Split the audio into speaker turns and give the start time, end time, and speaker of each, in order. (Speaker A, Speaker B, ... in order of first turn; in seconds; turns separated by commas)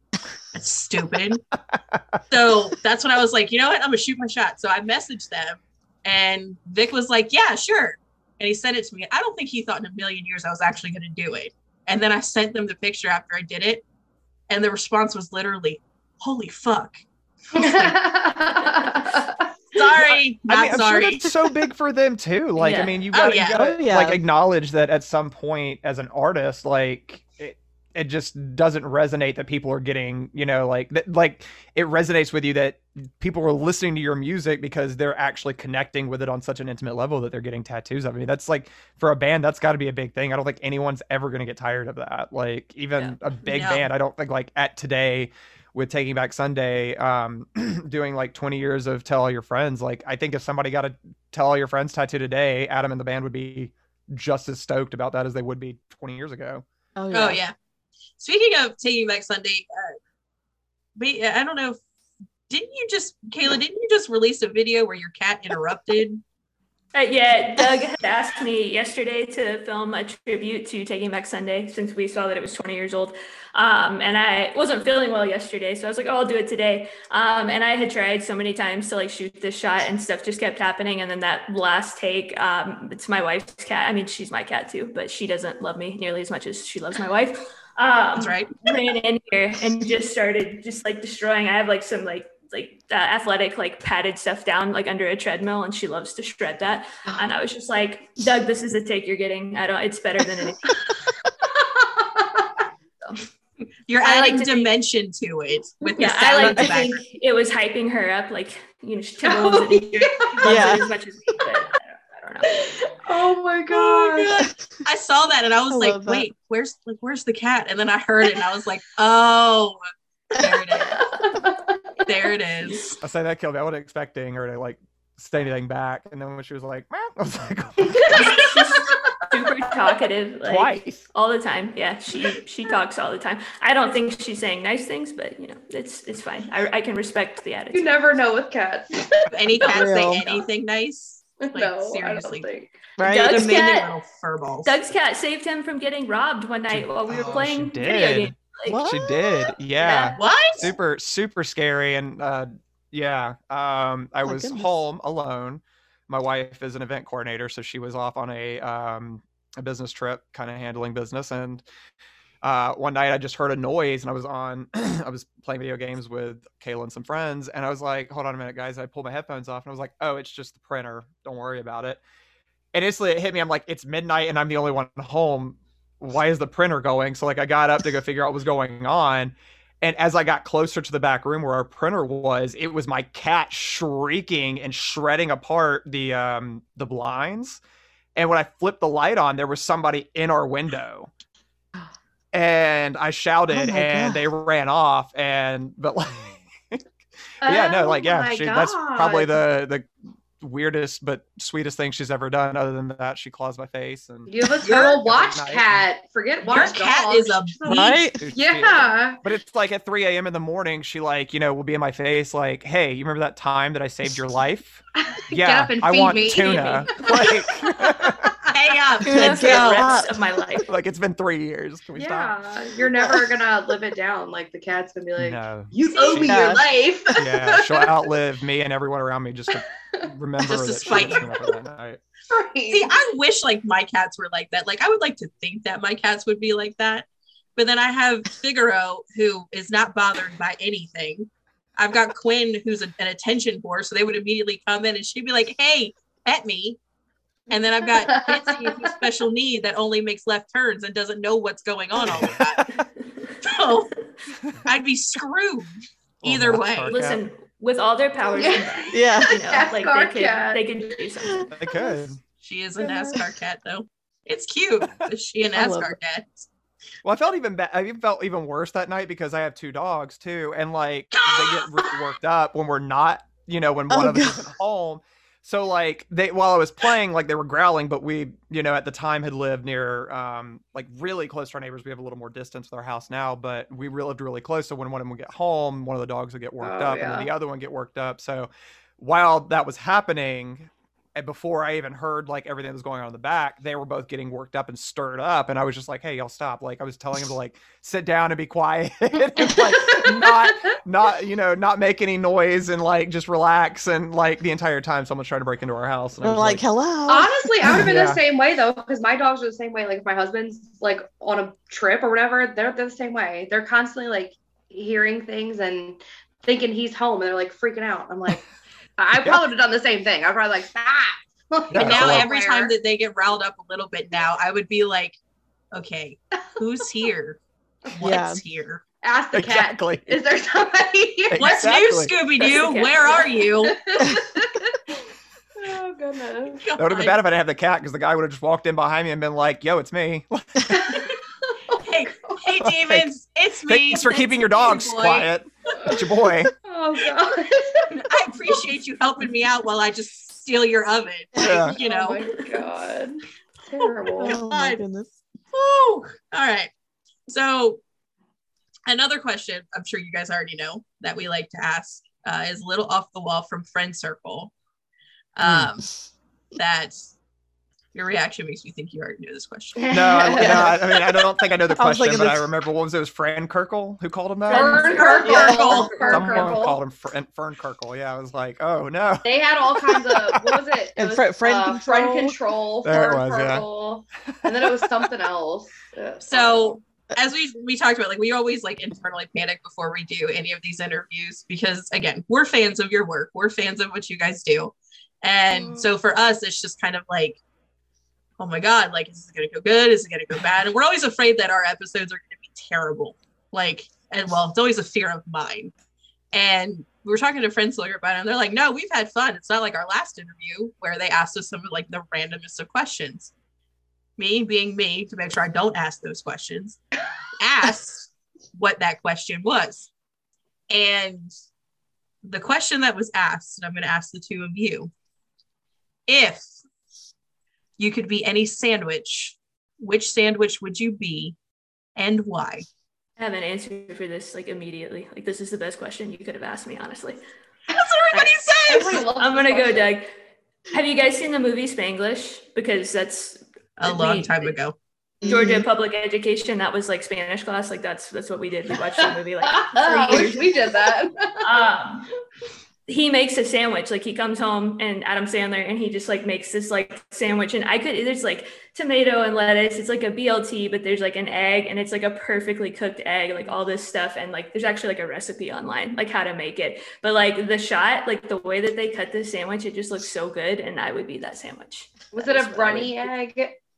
Speaker A: 0.5-1.4, Speaker B: 1.7-2.2, Speaker A: 2.3-13.8, Speaker A: 14.5-17.0, Speaker A: 17.5-17.9, Speaker C: 17.5-19.4, Speaker D: 18.6-19.3, Speaker A: 19.7-21.3, Speaker B: 20.1-56.6, Speaker D: 22.6-23.0, Speaker A: 23.1-23.6, Speaker E: 23.5-24.2, Speaker A: 43.5-43.9, Speaker E: 57.0-57.4, Speaker A: 57.1-57.5, Speaker A: 58.2-60.0, Speaker A: 61.0-61.8, Speaker A: 62.5-66.2, Speaker D: 66.9-100.8, Speaker A: 88.2-88.5, Speaker C: 101.4-102.5, Speaker D: 103.0-103.3, Speaker A: 103.9-107.0, Speaker D: 104.0-104.7, Speaker D: 106.0-112.9, Speaker E: 106.4-106.7, Speaker C: 109.2-110.8, Speaker E: 110.4-110.9, Speaker C: 112.5-114.4, Speaker A: 113.7-119.8, Speaker E: 115.7-116.3, Speaker A: 120.3-121.0, Speaker C: 120.4-121.8, Speaker A: 122.0-123.0, Speaker B: 123.0-128.4, Speaker C: 128.0-129.5, Speaker D: 128.1-137.9, Speaker B: 130.4-131.0, Speaker C: 137.7-139.3, Speaker A: 139.3-142.5, Speaker E: 139.6-140.2, Speaker D: 139.6-139.9, Speaker C: 141.4-142.7, Speaker E: 143.0-143.6, Speaker D: 143.0-143.9, Speaker A: 143.2-144.7, Speaker D: 144.6-150.7, Speaker B: 146.7-161.6, Speaker E: 148.7-149.1, Speaker A: 150.2-150.7, Speaker E: 154.2-154.7, Speaker B: 162.4-172.0, Speaker B: 172.7-187.6, Speaker B: 188.2-191.1, Speaker B: 192.3-196.8, Speaker E: 193.5-194.2, Speaker B: 197.4-205.8, Speaker C: 197.4-199.4, Speaker C: 204.3-209.2, Speaker A: 204.6-204.9, Speaker A: 206.4-208.0, Speaker E: 207.7-208.2, Speaker B: 208.0-218.4, Speaker C: 215.0-217.9, Speaker A: 218.5-219.9, Speaker D: 219.0-220.7, Speaker E: 219.0-220.2, Speaker B: 220.6-222.4, Speaker C: 222.0-228.0, Speaker B: 225.2-226.6, Speaker A: 225.9-226.3, Speaker E: 226.1-226.6, Speaker B: 227.1-232.0, Speaker C: 229.6-231.5, Speaker A: 230.5-231.3, Speaker C: 232.3-232.9, Speaker A: 232.7-246.8, Speaker A: 247.5-252.6, Speaker C: 247.5-248.9, Speaker B: 252.0-252.9, Speaker A: 253.4-253.9, Speaker A: 254.6-256.9, Speaker B: 256.2-257.2, Speaker D: 256.9-261.5, Speaker C: 258.4-260.6, Speaker E: 258.9-259.4, Speaker E: 261.2-262.0, Speaker B: 261.5-262.2, Speaker A: 262.4-266.5, Speaker C: 262.8-263.2, Speaker E: 265.5-266.0, Speaker B: 267.0-306.6, Speaker E: 273.9-274.4, Speaker C: 286.6-287.3, Speaker C: 299.4-300.8, Speaker E: 306.2-307.8, Speaker C: 307.1-318.4, Speaker B: 307.6-308.2, Speaker C: 319.0-322.7, Speaker B: 319.1-319.4, Speaker B: 321.7-322.3, Speaker A: 321.7-325.2, Speaker A: 325.7-327.4, Speaker A: 327.9-328.8, Speaker E: 328.0-328.4, Speaker C: 329.0-331.7, Speaker B: 329.3-330.2, Speaker B: 331.3-332.1, Speaker A: 331.3-333.8, Speaker D: 332.4-333.3, Speaker C: 333.6-334.9, Speaker C: 335.6-336.7, Speaker A: 336.6-337.2, Speaker B: 336.8-341.0, Speaker C: 340.7-341.8, Speaker A: 341.8-345.3, Speaker B: 342.6-343.1, Speaker B: 343.7-346.5, Speaker C: 346.6-348.0, Speaker A: 347.9-352.2, Speaker B: 351.4-351.8, Speaker C: 351.4-354.4, Speaker E: 354.1-355.1, Speaker A: 354.3-354.8, Speaker A: 355.5-356.7, Speaker A: 357.3-357.8, Speaker A: 358.9-364.5, Speaker A: 365.4-365.9, Speaker B: 365.4-365.7, Speaker A: 366.5-366.9, Speaker A: 367.9-369.9, Speaker C: 369.8-371.2, Speaker B: 369.9-375.3, Speaker E: 370.4-370.7, Speaker E: 371.7-372.5, Speaker D: 374.5-376.4, Speaker C: 374.5-376.8, Speaker A: 374.9-376.4, Speaker B: 375.9-380.6, Speaker C: 379.2-386.8, Speaker E: 381.0-382.4, Speaker B: 382.8-383.6, Speaker B: 384.2-385.1, Speaker A: 386.2-397.4, Speaker C: 395.5-395.9, Speaker A: 398.4-405.7, Speaker A: 406.3-413.3, Speaker A: 414.2-416.8, Speaker A: 417.4-419.9, Speaker A: 420.7-421.3, Speaker A: 422.2-424.9, Speaker A: 426.1-426.5, Speaker A: 427.8-431.4, Speaker A: 431.9-432.6, Speaker D: 433.2-437.2, Speaker A: 437.7-439.1, Speaker D: 438.1-440.1, Speaker C: 438.6-439.9, Speaker D: 440.7-444.5, Speaker A: 443.8-444.8, Speaker E: 445.2-445.7, Speaker D: 445.2-452.1, Speaker C: 448.9-451.5, Speaker D: 452.9-473.1, Speaker C: 472.1-473.6